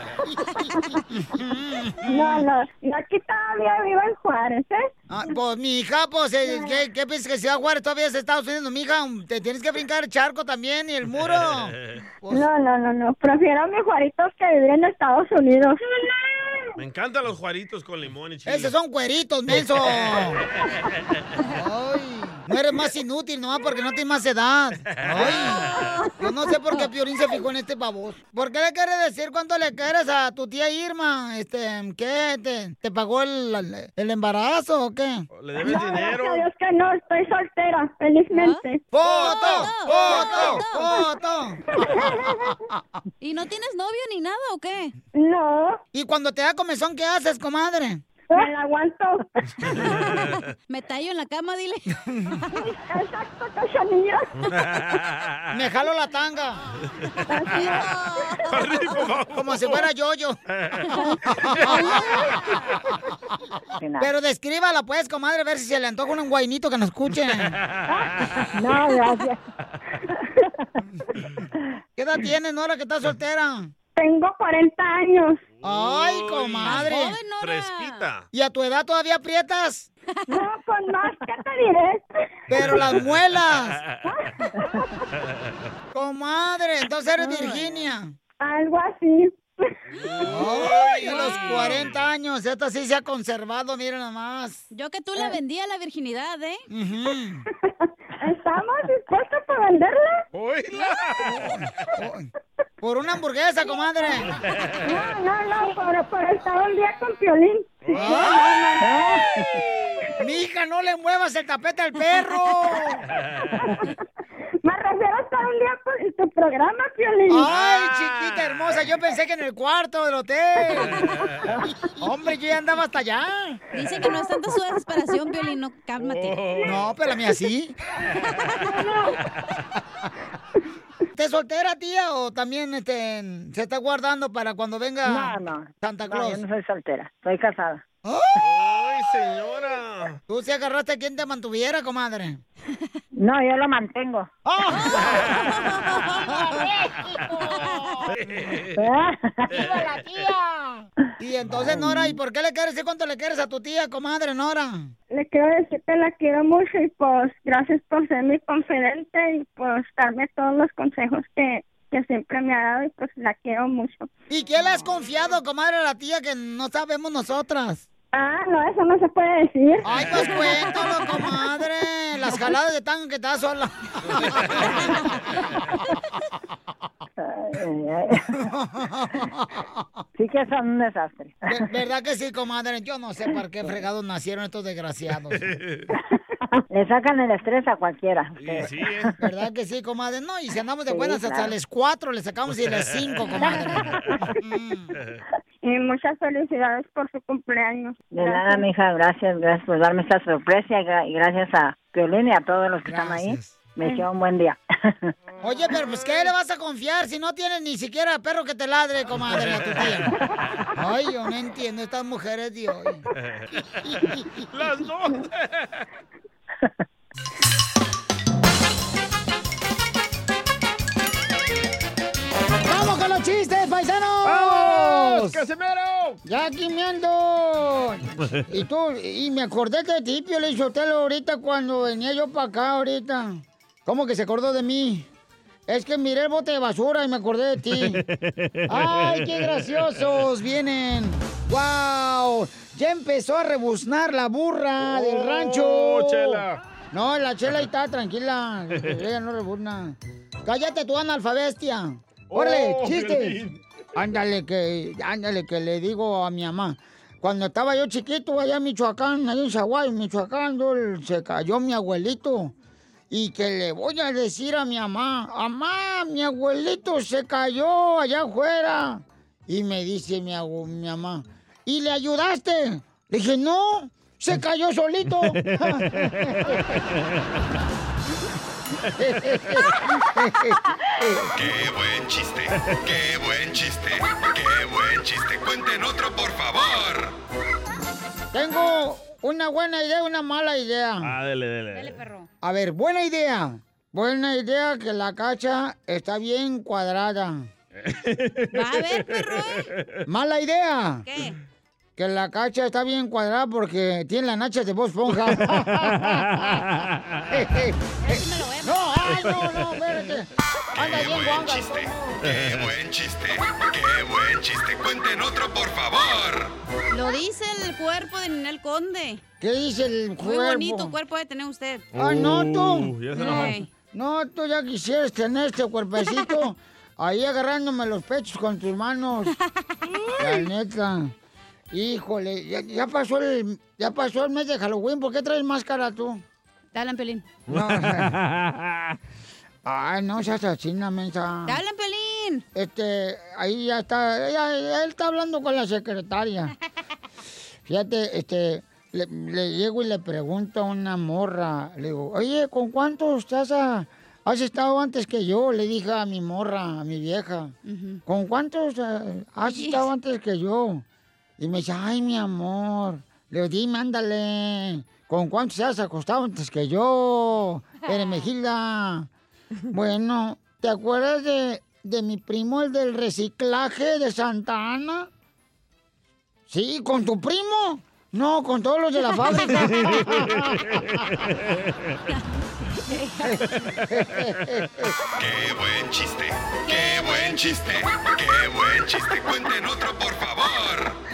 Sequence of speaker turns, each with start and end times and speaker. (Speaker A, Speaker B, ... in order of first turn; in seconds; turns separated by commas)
Speaker A: 0.6-1.0, Speaker B: 1.1-2.5, Speaker A: 2.1-4.9, Speaker B: 5.1-12.5, Speaker A: 12.3-16.6, Speaker C: 16.8-18.7, Speaker B: 18.5-20.4, Speaker B: 21.5-35.3, Speaker C: 35.3-36.5, Speaker A: 35.6-39.3, Speaker D: 38.4-40.9, Speaker B: 38.9-42.8, Speaker A: 39.9-40.5, Speaker A: 41.8-42.3, Speaker D: 43.2-44.9, Speaker A: 45.1-45.8, Speaker B: 45.9-48.0, Speaker A: 48.3-49.3, Speaker D: 50.7-51.9, Speaker A: 52.6-54.4, Speaker C: 54.6-55.5, Speaker B: 55.5-56.6, Speaker C: 57.1-57.7, Speaker A: 57.3-58.5, Speaker C: 58.3-59.9, Speaker B: 59.3-60.4, Speaker C: 60.6-61.9, Speaker B: 61.2-62.7, Speaker E: 63.8-64.1, Speaker B: 64.0-67.6, Speaker C: 67.6-68.4, Speaker E: 67.9-69.4, Speaker E: 69.9-70.5, Speaker B: 72.0-73.7, Speaker A: 74.0-75.4, Speaker B: 75.6-77.2, Speaker C: 75.6-78.3, Speaker D: 76.6-78.1, Speaker B: 78.3-79.9, Speaker A: 80.3-82.1, Speaker B: 82.5-83.8, Speaker A: 84.0-84.9, Speaker B: 85.9-88.1, Speaker A: 88.4-89.4, Speaker B: 90.3-94.6, Speaker C: 90.3-91.7, Speaker D: 91.0-91.8, Speaker D: 94.7-96.6, Speaker B: 96.7-97.4, Speaker A: 98.2-100.2, Speaker C: 100.3-101.3, Speaker B: 101.2-102.3, Speaker B: 102.8-104.3, Speaker C: 104.5-105.0, Speaker A: 104.8-109.1, Speaker B: 107.9-108.5, Speaker B: 110.2-113.0, Speaker A: 113.5-114.0, Speaker A: 114.6-117.5, Speaker B: 117.3-121.0, Speaker C: 117.7-118.6, Speaker B: 121.8-123.6, Speaker D: 123.7-126.7, Speaker C: 126.0-126.8, Speaker B: 126.6-127.8, Speaker B: 131.1-136.4, Speaker E: 135.0-137.8, Speaker B: 138.0-138.4, Speaker C: 138.4-140.2, Speaker B: 140.3-142.4, Speaker E: 143.2-144.3, Speaker B: 144.4-148.1, Speaker D: 147.7-147.9, Speaker C: 148.2-148.8, Speaker E: 148.8-149.7, Speaker B: 149.5-154.9, Speaker E: 151.7-152.2, Speaker A: 155.1-164.1, Speaker B: 164.3-167.8, Speaker A: 168.1-170.5, Speaker B: 169.8-175.0, Speaker E: 177.2-178.4, Speaker B: 178.3-180.0, Speaker E: 180.2-181.4, Speaker B: 181.5-185.4, Speaker C: 185.4-185.9, Speaker E: 186.7-189.1, Speaker C: 188.4-189.1, Speaker B: 189.2-194.9, Speaker E: 190.9-191.5, Speaker C: 192.6-192.9, Speaker A: 195.6-198.7, Speaker E: 198.1-205.1, Speaker B: 202.8-203.6, Speaker B: 205.4-210.1, Speaker C: 209.4-209.9, Speaker B: 210.8-213.0, Speaker B: 213.8-214.3, Speaker C: 214.5-215.8, Speaker B: 222.6-225.4, Speaker C: 224.2-226.2, Speaker B: 226.2-235.1, Speaker B: 235.7-238.0, Speaker C: 237.7-239.8, Speaker B: 238.7-253.4, Speaker C: 244.8-246.6, Speaker C: 252.3-253.6, Speaker B: 254.0-262.5, Speaker B: 263.1-276.6, Speaker C: 275.4-277.2, Speaker B: 279.0-281.3, Speaker F: 281.4-287.1, Speaker B: 288.3-291.1, Speaker C: 291.0-292.0, Speaker D: 291.7-292.3, Speaker B: 292.4-297.5, Speaker C: 297.8-299.9, Speaker D: 298.5-299.7, Speaker B: 300.1-301.1, Speaker D: 301.1-301.4, Speaker B: 302.0-306.6, Speaker C: 305.3-307.3, Speaker B: 307.3-312.2, Speaker D: 308.0-308.8, Speaker F: 310.7-316.5, Speaker C: 312.2-312.7, Speaker D: 316.9-319.2, Speaker B: 319.4-320.9, Speaker D: 320.2-321.9, Speaker B: 321.9-322.9, Speaker C: 321.9-323.6, Speaker D: 323.2-323.7, Speaker B: 323.9-329.4, Speaker B: 330.2-331.1, Speaker B: 331.7-336.2, Speaker D: 336.7-337.2, Speaker B: 337.5-338.2, Speaker C: 337.5-339.0, Speaker B: 339.6-341.6, Speaker D: 341.5-342.4, Speaker B: 342.6-346.5, Speaker B: 347.7-360.9, Speaker D: 357.7-358.0, Speaker D: 359.4-359.9, Speaker B: 361.4-369.1, Speaker D: 367.9-368.2, Speaker B: 369.7-375.1, Speaker B: 376.5-380.6, Speaker C: 379.6-382.0, Speaker D: 382.9-383.4, Speaker B: 383.2-384.9, Speaker F: 385.2-390.9, Speaker D: 386.6-387.9